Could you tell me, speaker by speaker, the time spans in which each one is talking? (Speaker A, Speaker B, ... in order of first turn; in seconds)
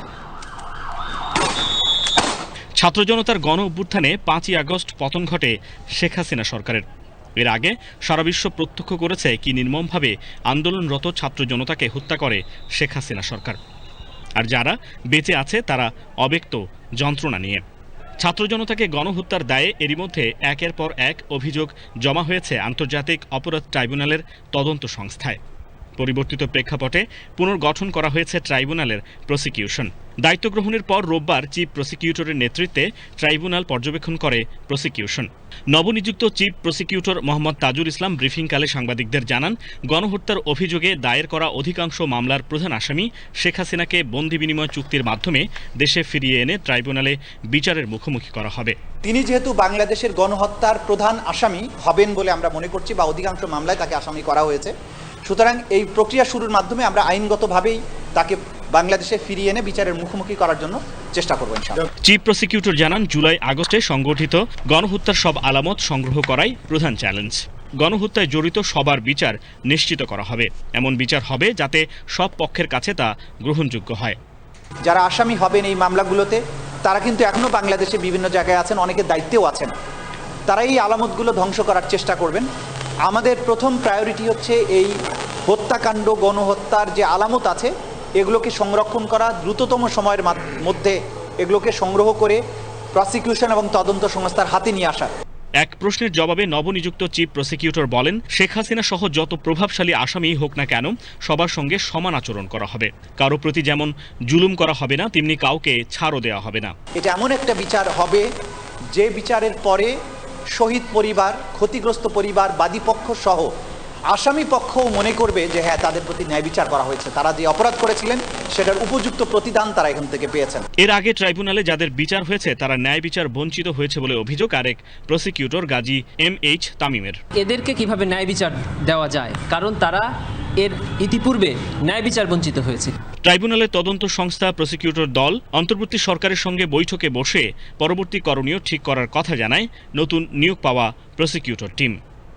Speaker A: 2.8-6.8, 7.4-13.6, 14.4-17.6, 18.2-25.4, 26.0-48.8, 62.0-74.2, 95.6-106.8, 120.8-127.2, 133.2-142.0
Speaker B: 49.0-54.7, 55.3-61.8, 74.9-79.7, 80.5-82.5, 83.1-84.9, 85.5-92.4, 93.0-95.1, 107.0-108.3, 108.9-109.9, 110.6-113.5, 114.1-120.6
Speaker C: 127.4-130.1, 130.6-133.0